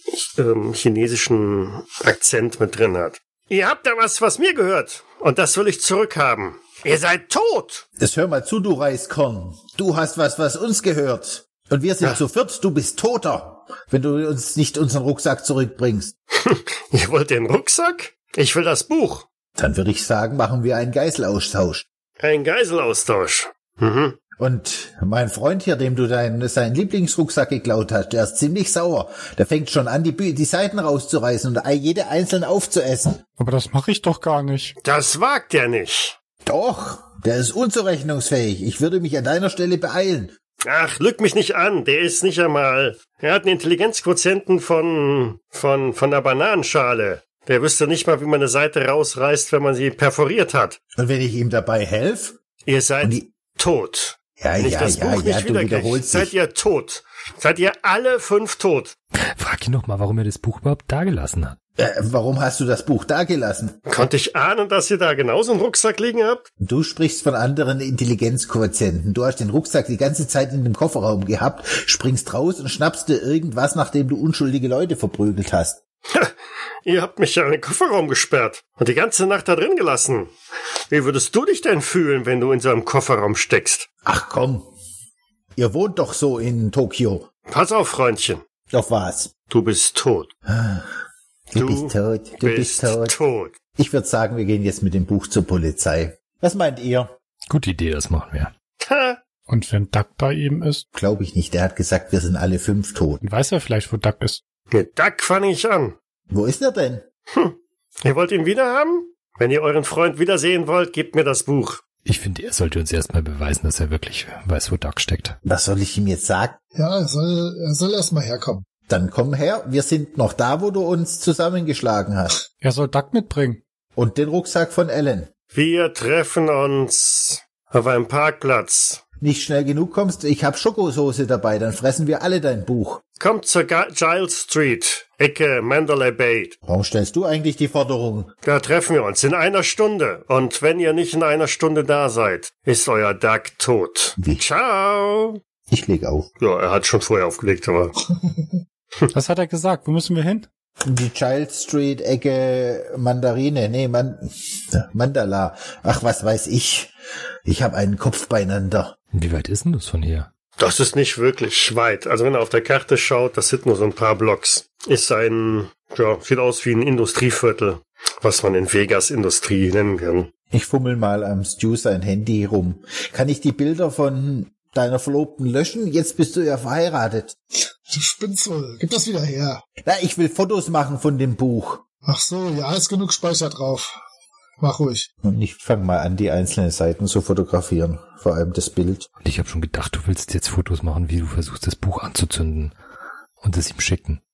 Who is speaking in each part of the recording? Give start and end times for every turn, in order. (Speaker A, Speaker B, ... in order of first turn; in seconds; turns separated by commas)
Speaker A: 0.3-7.8, Speaker B: 8.0-16.1, Speaker A: 16.4-19.2, Speaker B: 19.6-21.8, Speaker A: 22.2-24.2, Speaker B: 24.4-33.2, Speaker C: 33.4-34.8, Speaker A: 34.8-36.1, Speaker B: 36.5-40.3, Speaker A: 40.6-50.8, Speaker B: 50.9-52.4, Speaker A: 52.7-58.9, Speaker B: 53.0-53.3, Speaker B: 54.4-56.3, Speaker D: 59.2-61.6, Speaker B: 61.8-64.0, Speaker A: 63.9-66.5, Speaker B: 66.6-75.8, Speaker A: 76.8-80.3, Speaker A: 80.9-83.8, Speaker B: 84.1-84.7, Speaker B: 85.6-87.3, Speaker A: 87.5-88.4, Speaker B: 88.7-89.3, Speaker A: 89.5-90.3, Speaker B: 90.5-90.9, Speaker B: 91.5-93.1, Speaker A: 91.6-93.5, Speaker B: 93.8-97.1, Speaker D: 97.5-98.5, Speaker A: 98.8-99.2, Speaker C: 99.5-100.8, Speaker B: 100.9-103.2, Speaker C: 103.2-104.4, Speaker A: 104.7-106.0, Speaker B: 106.3-107.0, Speaker A: 107.3-111.8, Speaker D: 112.1-115.4, Speaker B: 115.4-116.6, Speaker E: 116.8-118.6, Speaker B: 118.9-122.4, Speaker C: 122.6-123.6, Speaker B: 124.0-125.3, Speaker A: 125.5-129.0, Speaker B: 129.2-133.0, Speaker A: 133.2-136.6, Speaker B: 136.6-138.3, Speaker A: 138.4-145.4, Speaker B: 144.2-144.4, Speaker B: 145.7-146.3, Speaker A: 146.4-147.9, Speaker C: 149.1-150.5, Speaker B: 150.8-156.9, Speaker B: 157.4-158.9, Speaker D: 159.1-160.3, Speaker A: 160.6-170.3, Speaker B: 170.5-177.3, Speaker E: 177.9-179.6, Speaker B: 179.8-181.8, Speaker E: 182.1-184.0, Speaker E: 184.6-185.1, Speaker B: 185.2-189.1, Speaker D: 189.2-192.7, Speaker D: 193.4-194.2